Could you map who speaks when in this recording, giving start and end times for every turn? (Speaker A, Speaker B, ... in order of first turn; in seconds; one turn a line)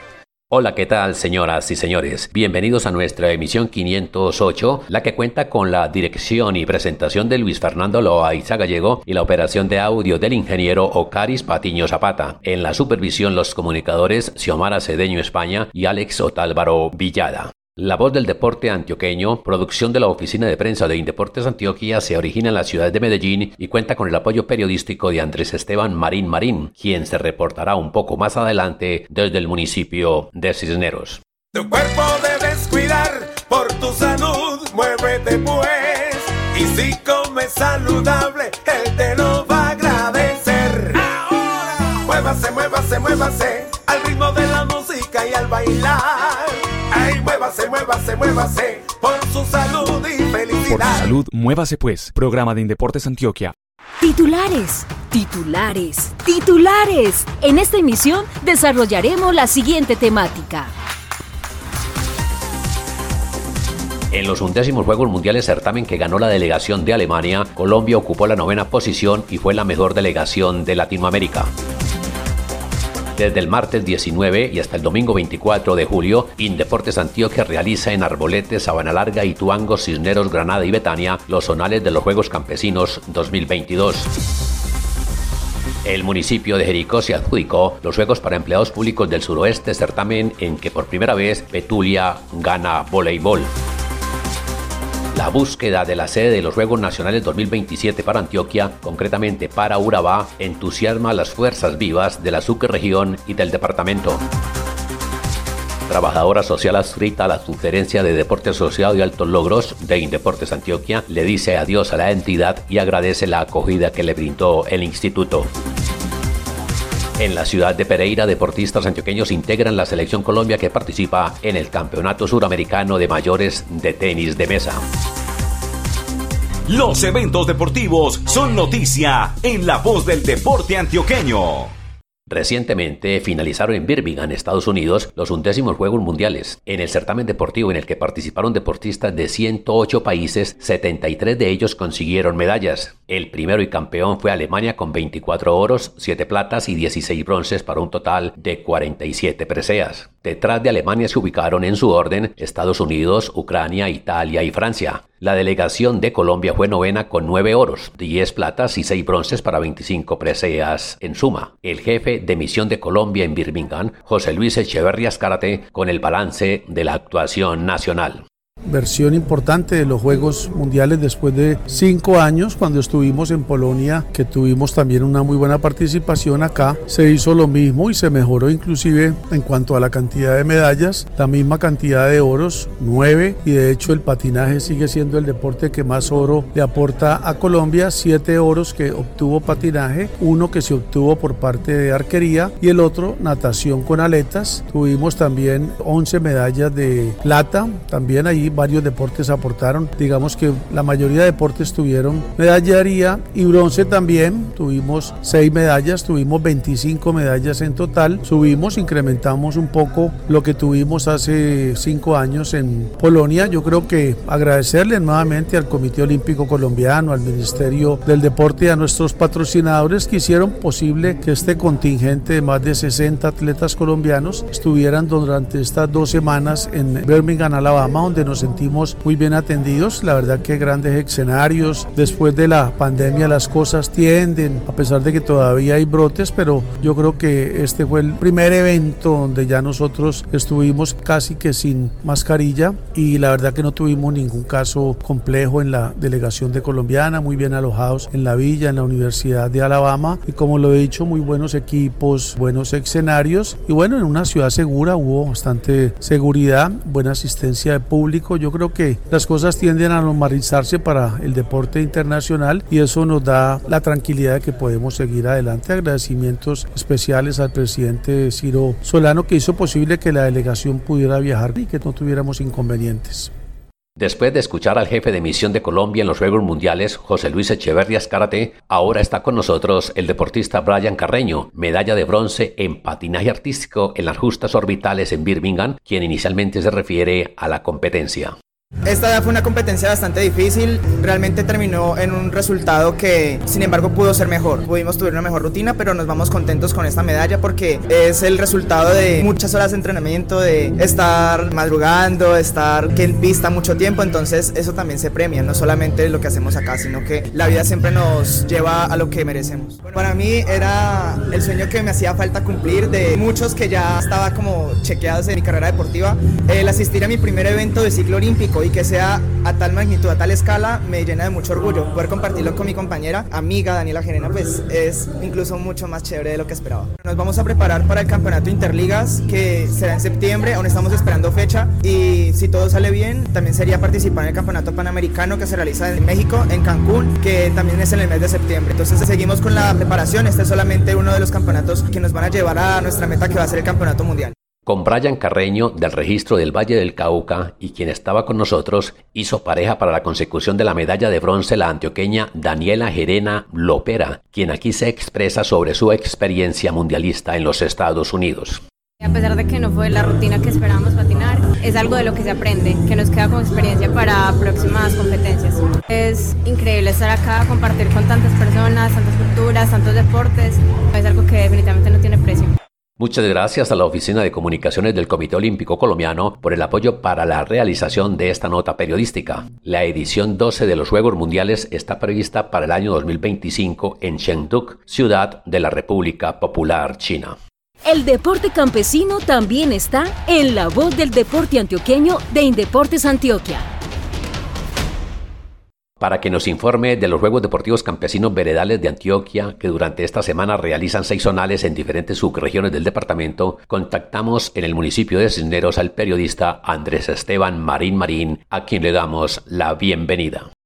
Speaker A: 0.5-31.2
Speaker B: 31.5-51.2
Speaker C: 51.2-53.5
Speaker D: 54.0-60.7
Speaker A: 64.1-71.5
Speaker A: 73.2-84.1
Speaker A: 85.8-93.5
Speaker A: 95.1-104.2
Speaker A: 105.9-115.5
Speaker A: 117.2-124.8
Speaker E: 126.7-131.7
Speaker A: 132.3-168.2
Speaker F: 168.7-273.3
Speaker A: 274.0-288.3
Speaker G: 288.9-344.3
Speaker A: 344.6-358.6
Speaker H: 359.0-372.5
Speaker A: 373.0-387.4
Speaker D: 387.8-393.6
Speaker A: 396.0-410.5